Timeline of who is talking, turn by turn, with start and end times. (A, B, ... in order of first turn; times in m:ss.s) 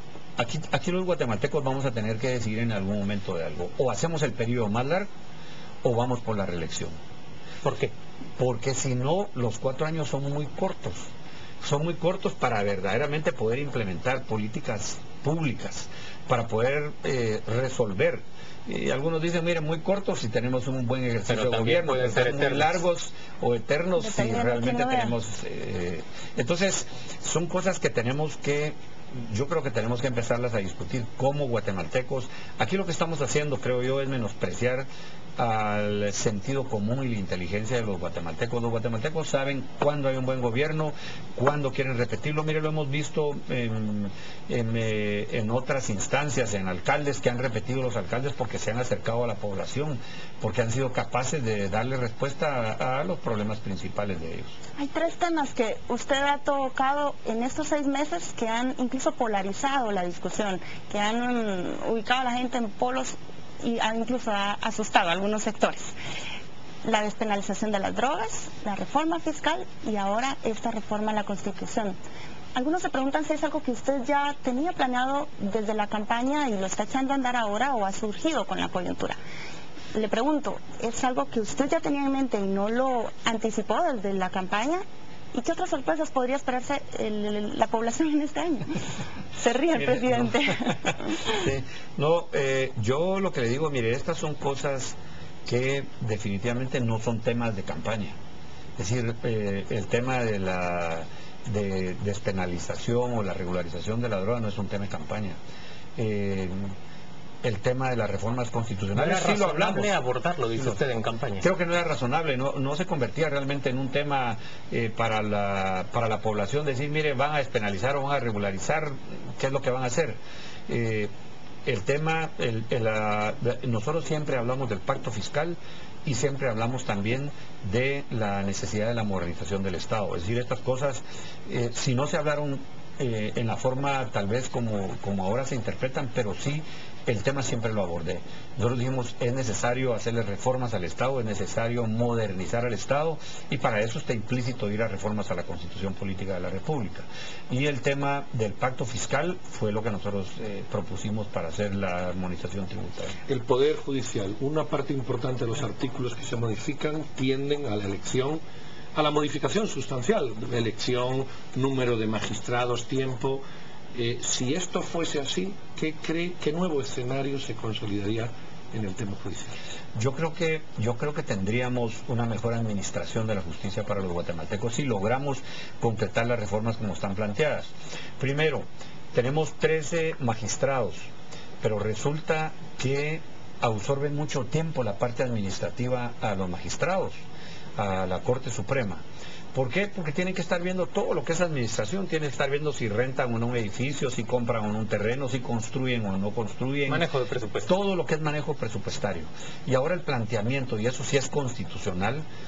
0:00.4-0:05.1 A
0:05.8-0:07.0 A
0:07.6-0:07.9 B
0:08.4-0:11.1 A
0:11.6-0:54.5 A
0:21.3-0:22.8 B
0:24.0-0:25.2 C
0:54.8-1:05.9 C
1:06.8-1:12.0 C
1:12.5-1:19.2 C
1:19.9-1:28.7 C
1:29.3-1:31.2 C
1:29.8-1:30.3 A
1:31.3-1:38.2 A
1:38.8-1:45.4 A
1:46.0-1:46.7 A
1:47.4-1:49.9 A
1:48.9-1:51.4 B
1:51.4-2:01.1 A
2:01.6-2:33.2 A
2:33.3-2:38.4 D
2:38.9-2:49.6 D
2:49.9-3:01.1 A
3:01.6-3:07.2 A
3:07.8-3:09.0 A
3:09.5-3:17.0 A
3:16.9-3:17.7 B
3:17.6-3:22.2 A